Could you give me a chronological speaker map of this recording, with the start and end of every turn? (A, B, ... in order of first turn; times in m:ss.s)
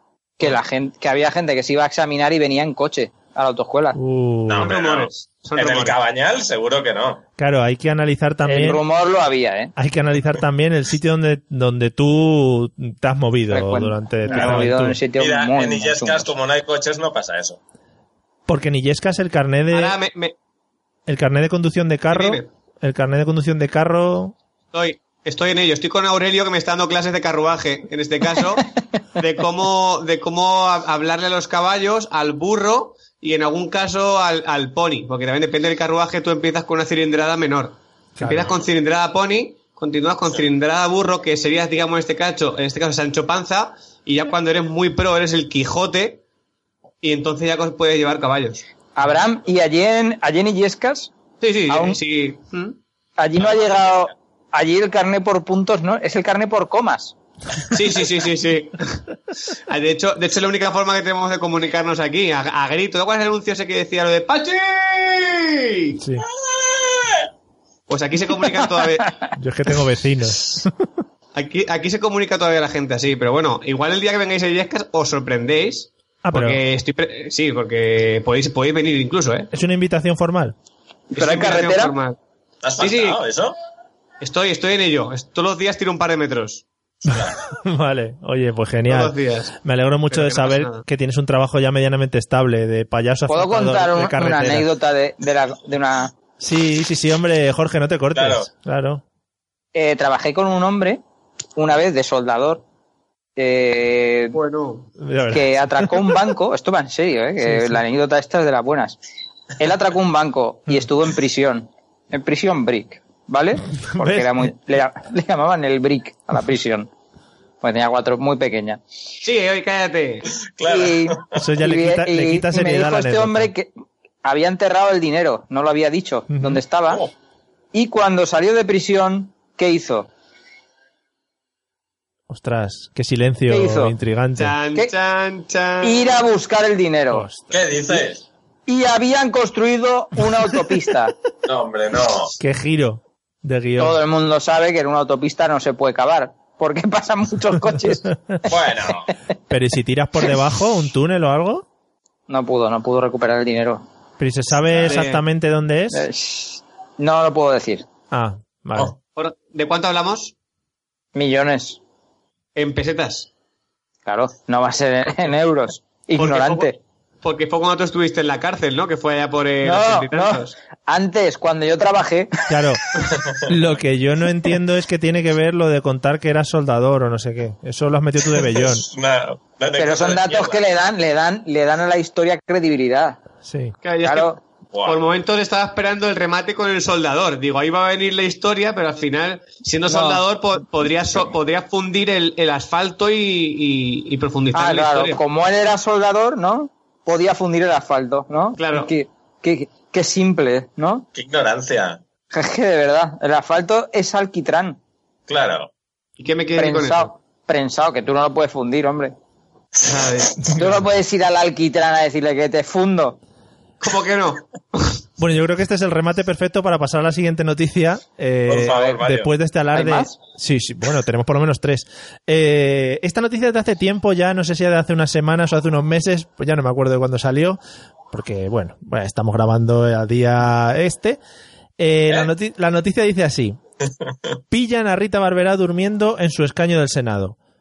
0:00.4-0:04.0 A
0:04.0-0:04.7 B
0:04.5-0:07.2 C
0:04.6-0:06.0 D
0:07.4-0:08.8 B
0:08.5-0:09.7 A
0:09.8-0:15.0 B
0:13.5-0:16.3 A
0:15.2-0:17.6 C
0:18.5-0:20.0 B
0:19.7-0:20.4 D
0:21.1-0:24.3 B
0:22.1-0:22.5 D
0:24.7-0:46.2 D
0:38.2-0:38.5 B
0:47.0-0:48.6 D
0:49.0-0:51.1 A
0:51.4-0:52.8 D
0:51.7-0:52.0 A
0:53.2-0:57.2 A
0:57.7-0:59.0 D
0:59.7-1:06.0 D
1:06.0-1:06.3 B
1:06.5-1:07.2 C
1:07.9-1:09.2 D
1:09.4-1:10.9 B
1:11.4-1:19.5 D
1:16.2-1:16.6 B
1:19.5-1:20.6 B
1:21.1-1:22.2 D
1:21.2-1:21.9 A
1:22.6-1:23.6 C
1:22.8-1:23.2 D
1:24.2-1:26.6 D
1:27.0-1:27.4 C
1:27.1-1:34.7 B
1:28.9-1:29.6 D
1:30.1-1:30.8 D
1:33.3-1:36.1 A
1:36.4-1:39.0 B
1:38.2-1:38.5 C
1:39.8-1:41.0 A
1:41.6-1:42.6 A
1:43.4-1:44.4 A
1:44.3-1:44.9 D
1:45.0-1:46.0 B
1:45.3-1:49.0 A
1:47.5-1:47.8 B
1:49.6-1:56.9 A
1:53.9-1:54.5 B
1:57.6-1:58.8 A
1:59.2-2:00.3 D
2:00.4-2:01.4 C
2:00.7-2:03.7 A
2:01.4-2:03.5 B
2:04.2-2:07.0 A
2:06.3-2:06.6 B
2:07.7-2:10.1 A
2:12.3-2:14.6 B
2:13.5-2:13.9 A
2:14.4-2:16.2 D
2:15.8-2:17.3 A
2:17.1-2:17.6 B
2:17.5-2:18.2 C
2:18.7-2:21.2 A
2:21.4-2:22.4 C
2:22.4-2:24.0 B
2:23.8-2:28.1 A
2:28.5-2:29.1 C
2:29.5-2:31.6 B
2:32.3-2:33.8 A
2:34.2-2:36.0 B
2:34.8-2:35.2 D
2:35.9-2:37.8 A
2:38.1-2:38.9 B
2:39.2-2:40.3 D
2:41.1-2:41.8 A
2:42.6-2:43.3 D
2:44.1-2:46.8 A
2:46.2-2:46.7 D
2:47.2-2:50.6 D
2:49.6-2:52.5 A
2:52.5-2:52.8 B
2:53.2-2:53.5 C
2:53.5-2:58.9 B
2:58.4-3:00.6 C
2:59.7-3:03.2 A
3:03.4-3:03.7 B
3:03.8-3:15.2 D
3:04.0-3:04.4 A
3:09.9-3:10.2 A
3:14.5-3:21.1 A
3:18.6-3:18.9 D
3:21.2-3:22.0 C
3:22.3-3:24.8 A
3:25.3-3:25.7 C
3:26.2-3:27.1 D
3:26.6-3:29.2 A
3:29.8-3:30.5 C
3:29.8-3:30.8 D
3:30.5-3:33.2 A
3:33.8-3:35.0 D
3:35.2-3:47.6 B
3:38.5-3:39.3 C
3:39.7-3:40.2 A
3:48.1-3:51.2 B
3:51.8-3:53.6 B
3:53.9-3:54.4 C
3:54.5-3:57.4 B